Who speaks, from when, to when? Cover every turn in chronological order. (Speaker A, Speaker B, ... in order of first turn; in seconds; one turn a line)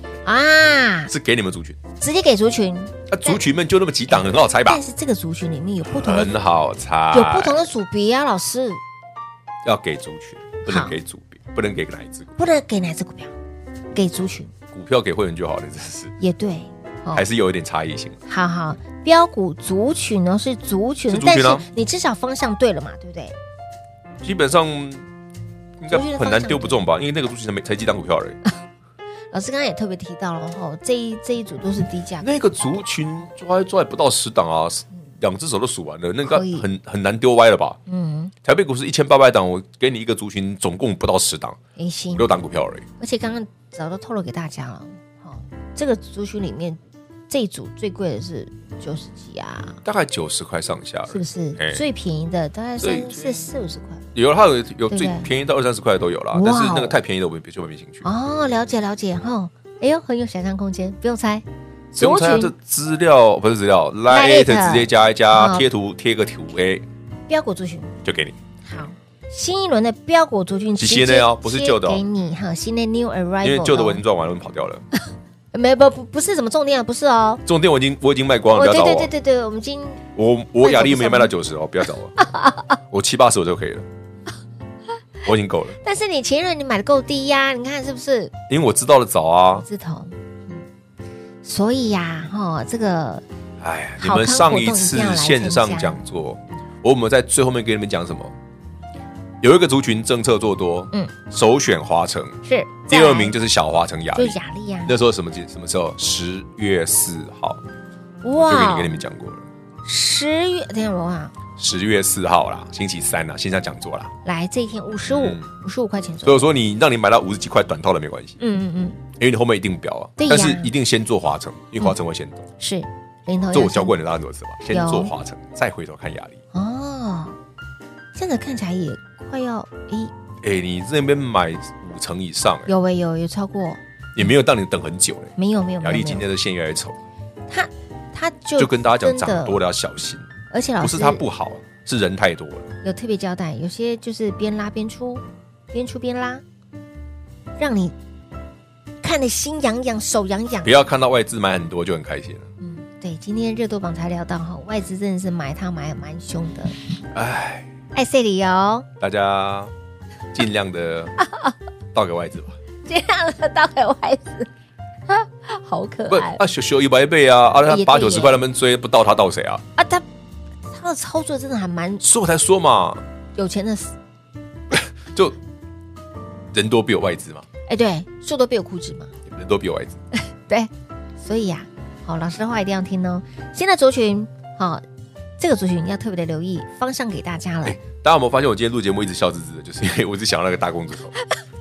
Speaker A: 0.2-1.1
Speaker B: 1.1-1.8
Speaker A: 2.0-3.4
Speaker B: 3.1-4.8
Speaker A: 4.1-6.4
Speaker B: 5.8-7.7
Speaker A: 7.1-8.8
Speaker B: 9.6-12.3
Speaker A: 10.7-10.9
Speaker A: 12.4-13.3
Speaker A: 13.9-14.5
Speaker B: 14.7-16.1
Speaker A: 16.2-17.3
Speaker B: 17.1-18.2
Speaker A: 18.3-23.4
Speaker B: 21.1-21.7
Speaker B: 24.2-25.1
Speaker B: 25.8-28.4
Speaker A: 25.9-26.8
Speaker A: 29.3-32.8
Speaker B: 32.2-37.8
Speaker A: 36.2-36.7
Speaker A: 37.9-38.3
Speaker B: 38.5-41.6
Speaker A: 41.8-42.2
Speaker B: 42.1-42.9
Speaker A: 43.0-49.8
Speaker B: 49.8-51.8
Speaker A: 51.1-54.0
Speaker B: 52.8-53.5
Speaker B: 54.1-58.1
Speaker A: 54.9-55.3
Speaker A: 56.3-57.0
Speaker A: 58.0-62.5
Speaker B: 62.0-66.9
Speaker A: 64.1-65.7
Speaker A: 67.3-68.0
Speaker B: 68.0-68.4
Speaker A: 68.6-74.0
Speaker B: 70.8-72.0
Speaker B: 73.4-74.8
Speaker A: 75.5-77.4
Speaker B: 77.5-79.1
Speaker A: 78.5-80.0
Speaker B: 80.2-82.2
Speaker A: 80.6-81.3
Speaker A: 82.2-82.8
Speaker B: 82.9-83.9
Speaker B: 85.2-85.8
Speaker A: 85.8-88.3
Speaker B: 88.5-89.7
Speaker A: 89.6-90.7
Speaker A: 91.4-93.2
Speaker B: 93.6-98.3
Speaker A: 94.0-96.0
Speaker B: 99.4-107.6
Speaker A: 102.5-103.3
Speaker A: 104.2-104.9
Speaker A: 108.2-109.0
Speaker B: 108.3-109.5
Speaker A: 109.8-111.3
Speaker B: 111.6-114.1
Speaker A: 114.2-116.4
Speaker B: 115.1-115.5
Speaker B: 116.2-118.4
Speaker A: 118.4-119.0
Speaker B: 119.1-122.5
Speaker A: 120.2-120.7
Speaker A: 122.6-124.0
Speaker B: 123.5-126.4
Speaker A: 124.7-125.1
Speaker A: 126.5-127.3
Speaker A: 128.2-130.1
Speaker B: 130.4-132.7
Speaker A: 132.7-133.8
Speaker B: 134.2-137.0
Speaker A: 135.4-136.2
Speaker A: 137.5-139.6
Speaker B: 138.6-142.7
Speaker A: 140.5-141.2
Speaker A: 142.8-146.4
Speaker A: 147.6-147.9
Speaker A: 149.0-150.8
Speaker B: 150.6-152.5
Speaker A: 152.6-156.8
Speaker B: 157.1-157.7
Speaker A: 157.9-158.9
Speaker B: 159.0-159.7
Speaker B: 160.3-161.2
Speaker A: 161.2-161.5
Speaker B: 161.9-162.6
Speaker A: 162.9-164.5
Speaker A: 165.1-166.4
Speaker B: 166.1-169.6
Speaker A: 167.7-168.4
Speaker A: 169.8-170.1
Speaker A: 170.7-172.0
Speaker B: 172.0-173.0
Speaker A: 173.4-173.9
Speaker B: 174.7-175.4
Speaker B: 176.5-177.5
Speaker A: 177.7-179.1
Speaker B: 179.3-180.0
Speaker A: 180.1-184.8
Speaker A: 185.4-187.8
Speaker B: 187.6-191.1